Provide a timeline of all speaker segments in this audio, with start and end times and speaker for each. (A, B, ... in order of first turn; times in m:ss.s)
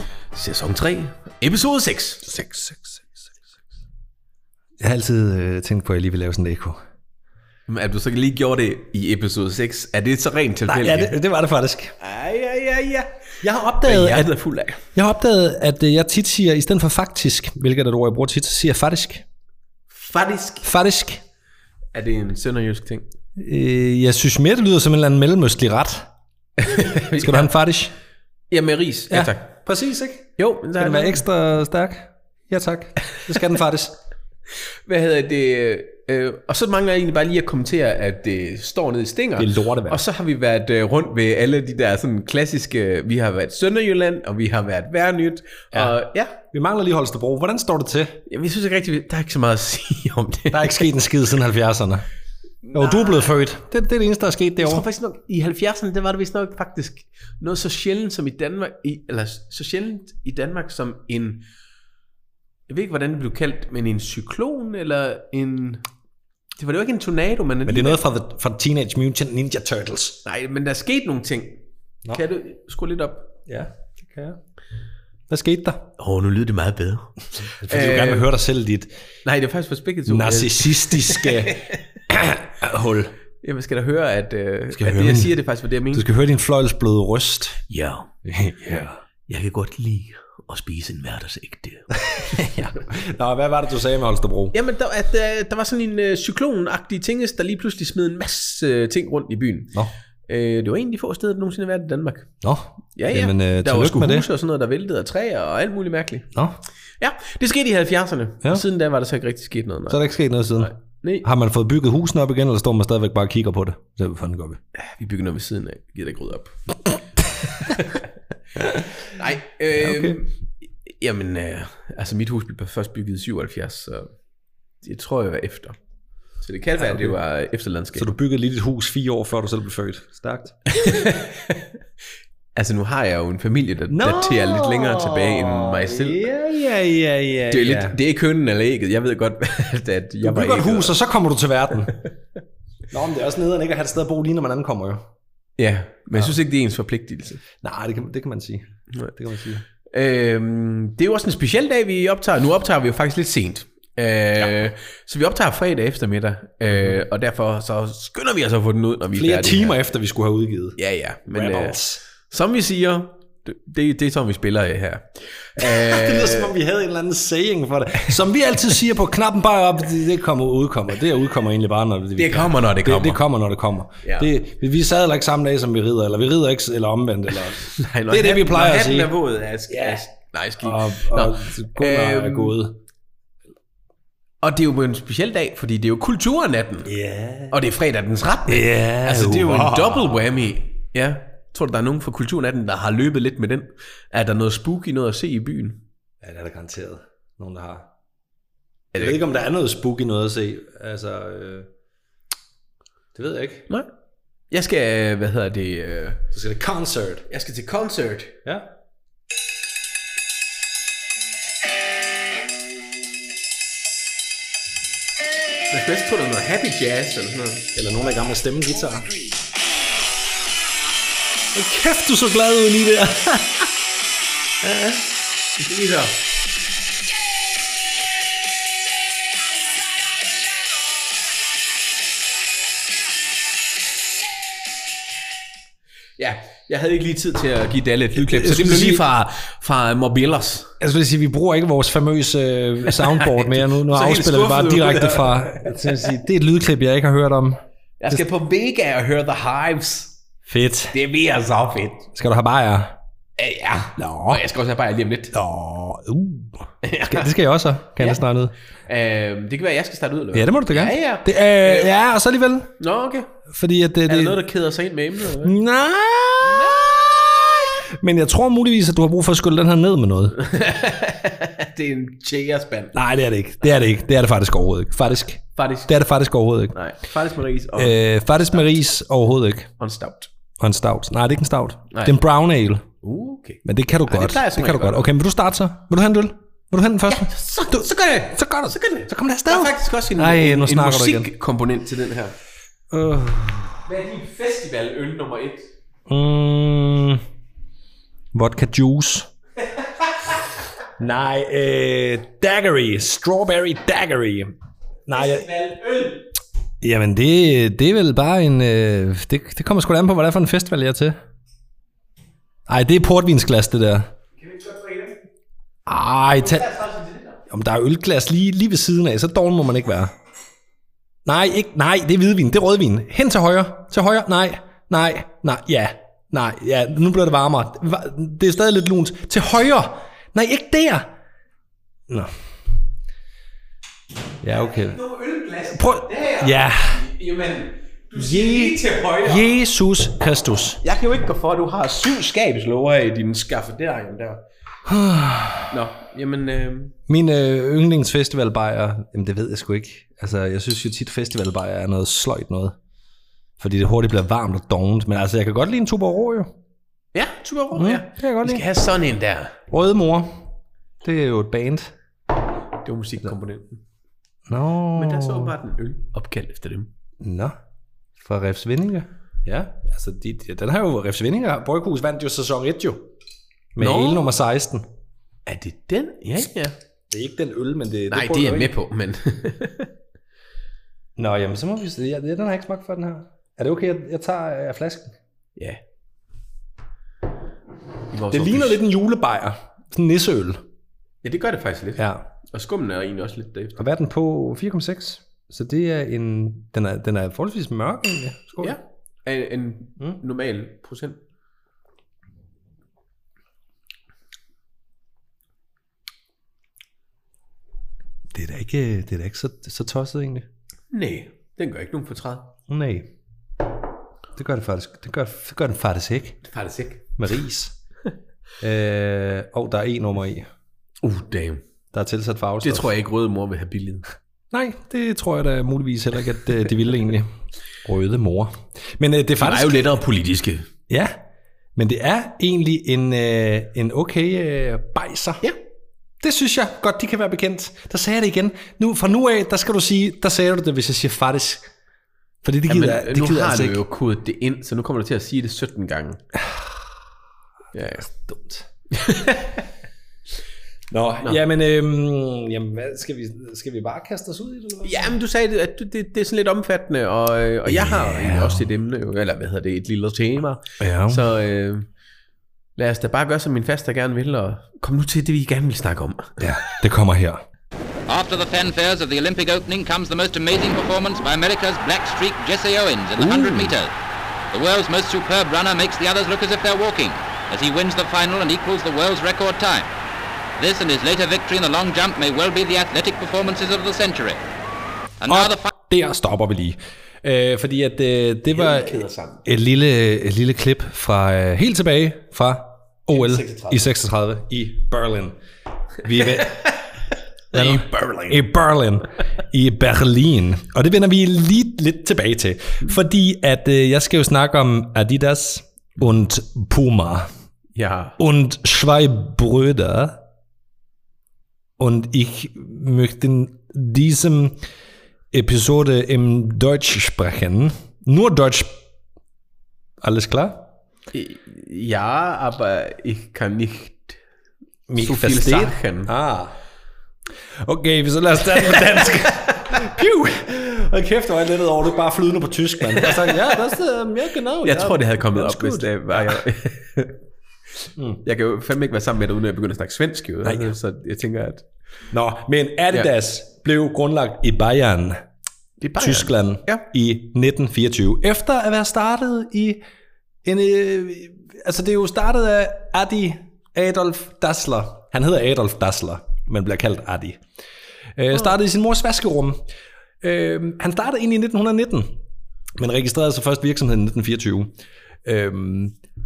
0:00.3-0:02.3 A
0:02.3-0:03.4 B
0:04.8-0:06.8 B
0:07.7-0:11.2 A
0:10.7-0:11.9 B
0:12.0-0:13.1 A
0:13.4-0:14.3 B
0:13.8-0:14.8 A
0:15.0-0:19.2 B
0:19.9-0:20.7 A
0:20.6-0:21.2 B
0:21.9-0:23.1 A
0:23.4-0:26.1 B
0:26.6-0:27.5 A
0:26.8-0:27.9 B
0:28.5-0:29.6 A
0:29.1-0:34.0 B
0:30.4-0:31.2 A
0:34.9-0:46.4 A
0:39.4-0:40.0 B
0:46.5-0:48.2 B
0:48.3-0:50.9 A
0:50.5-0:52.1 B
0:52.7-0:53.3 A
0:52.7-0:54.8 B
0:54.6-1:01.4 A
1:02.7-1:05.8 A
1:06.6-1:08.0 A
1:07.7-1:10.2 B
1:10.2-1:13.3 A
1:13.5-1:14.4 B
1:15.3-1:15.9 B
1:16.0-1:18.3 A
1:17.6-1:18.9 B
1:19.2-1:21.9 A
1:20.1-1:23.1 B
1:23.4-1:26.1 A
1:24.7-1:25.3 B
1:25.9-1:27.6 B
1:27.7-1:28.1 A
1:28.2-1:29.0 B
1:29.3-1:32.4 A
1:32.0-1:34.6 B
1:34.5-1:39.8 A
1:40.3-1:42.3 A
1:42.4-1:44.3 B
1:43.0-1:46.3 A
1:46.3-1:46.6 B
1:47.0-1:51.3 A
1:49.9-1:54.6 B
1:54.8-1:56.6 A
1:57.6-1:58.0 A
1:59.1-2:00.3 A
1:59.8-2:00.2 B
2:00.8-2:04.1 A
2:04.8-2:05.8 A
2:06.4-2:08.1 A
2:06.8-2:07.2 B
2:08.0-2:10.6 B
2:10.7-2:11.6 A
2:12.6-2:16.3 A
2:13.9-2:18.0 B
2:17.5-2:21.0 A
2:20.2-2:22.0 B
2:22.9-2:25.1 B
2:25.6-2:27.4 A
2:27.6-2:29.6 B
2:29.8-2:39.8 A
2:39.1-2:40.8 B
2:40.8-2:46.5 A
2:41.3-2:42.0 B
2:45.6-2:59.1 B
2:52.2-2:53.2 A
2:54.0-2:54.3 A
2:57.6-3:02.6 A
2:59.7-3:00.0 B
3:00.6-3:02.8 B
3:04.4-3:06.9 A
3:06.9-3:07.6 B
3:07.5-3:15.8 A
3:08.5-3:10.2 B
3:16.2-3:17.9 B
3:18.9-3:19.2 A
3:19.0-3:21.7 B
3:23.2-3:23.7 B
3:24.5-3:26.2 A
3:26.3-3:27.3 B
3:27.3-3:28.4 A
3:35.7-3:37.7 A
3:37.7-3:39.1 B
3:41.5-3:43.7 B
3:44.6-3:45.0 B
3:45.6-3:46.2 A
3:56.2-4:00.7 A
3:58.2-3:59.0 B
4:00.8-4:07.6 B
4:02.9-4:06.1 A
4:08.0-4:10.2 A
4:10.5-4:11.0 B
4:10.9-4:12.1 A
4:12.1-4:13.0 B
4:13.4-4:15.3 A
4:13.9-4:14.4 B
4:15.3-4:18.5 B
4:16.8-4:17.3 A
4:18.9-4:21.9 A
4:20.3-4:22.7 B
4:22.8-4:23.3 A
4:23.5-4:24.4 B
4:24.1-4:25.6 A
4:25.4-4:30.4 B
4:26.4-4:26.8 A
4:30.4-4:33.0 A
4:32.9-4:36.8 B
4:35.6-4:36.0 A
4:36.7-4:38.0 A
4:37.8-4:39.7 B
4:39.8-4:40.3 A
4:40.6-4:42.8 B
4:41.9-4:42.2 A
4:43.0-4:45.1 A
4:43.6-4:51.3 B
4:47.1-4:52.4 A
4:52.9-4:53.8 B
4:53.8-4:55.7 A
4:56.1-4:57.2 B
4:58.3-4:59.3 B
5:01.0-5:04.5 B
5:05.1-5:05.5 B
5:05.1-5:06.2 A
5:06.8-5:11.2 B
5:12.7-5:14.1 B
5:14.4-5:15.2 A
5:15.9-5:16.7 B
5:16.4-5:17.4 A
5:17.5-5:20.1 B
5:21.2-5:31.1 B
5:34.4-5:35.0 B
5:34.8-5:39.4 A
5:35.7-5:37.0 B
5:38.1-5:40.8 B
5:40.8-5:44.4 A
5:44.8-5:45.7 B
5:45.7-5:47.0 A
5:47.1-5:52.8 B
5:53.6-5:56.5 B
5:57.1-5:59.6 A
5:57.8-5:58.6 B
5:59.7-6:00.5 B
6:01.0-6:01.9 B
6:02.8-6:03.8 A
6:04.5-6:05.6 B
6:04.9-6:06.9 A
6:07.2-6:07.6 B
6:08.2-6:13.1 B
6:13.8-6:14.9 B
6:13.8-6:14.3 A
6:15.5-6:16.8 A
6:17.1-6:18.7 B
6:18.1-6:19.9 A
6:21.2-6:25.1 B
6:28.1-6:28.8 A
6:28.3-6:30.6 B
6:31.2-6:33.8 A
6:32.0-6:32.2 B
6:33.8-6:38.8 B
6:38.6-6:41.2 A
6:48.3-6:50.5 B
6:50.9-6:52.5 A
6:52.7-6:53.1 B
6:54.4-6:56.4 B
6:56.4-6:57.2 A
6:57.2-6:57.8 B
6:58.6-7:00.5 B
7:01.0-7:01.6 A
7:01.9-7:02.9 B
7:02.6-7:04.1 A
7:04.5-7:07.3 B
7:07.8-7:09.8 B
7:09.4-7:10.7 A
7:10.9-7:11.2 B
7:11.8-7:15.4 B
7:16.2-7:21.7 B
7:22.4-7:23.8 B
7:22.7-7:26.2 A
7:27.7-7:28.1 A
7:28.1-7:28.7 B
7:28.9-7:29.6 A
7:30.9-7:35.2 B
7:34.8-7:41.9 A
7:37.7-7:38.6 B
7:40.8-7:41.2 B
7:42.8-7:46.4 A
7:46.4-7:47.4 B
7:48.1-7:53.9 C
7:53.2-7:53.7 B
7:54.5-7:59.9 C
8:00.6-8:04.4 C
8:05.2-8:05.7 C
8:05.3-8:15.4 B
8:08.5-8:09.5 A
8:13.1-8:13.8 A
8:16.0-8:16.7 B
8:16.4-8:16.7 A
8:17.5-8:18.4 A
8:17.5-8:27.3 B
8:27.8-8:28.2 A
8:28.2-8:30.2 B
8:31.8-8:34.6 B
8:35.3-8:38.8 B
8:40.0-8:40.7 B
8:41.1-8:44.2 A
8:44.9-8:46.6 B
8:45.0-8:46.1 A
8:47.6-8:56.4 B
8:48.8-8:49.8 A
8:52.9-8:53.7 A
8:54.6-8:57.1 A
8:58.2-9:01.7 A
9:00.4-9:00.7 B
9:02.1-9:05.2 B
9:05.8-9:06.8 A
9:06.0-9:09.8 B
9:10.4-9:17.4 B
9:18.2-9:19.6 B
9:20.2-9:22.2 B
9:22.8-9:24.7 B
9:25.2-9:26.0 B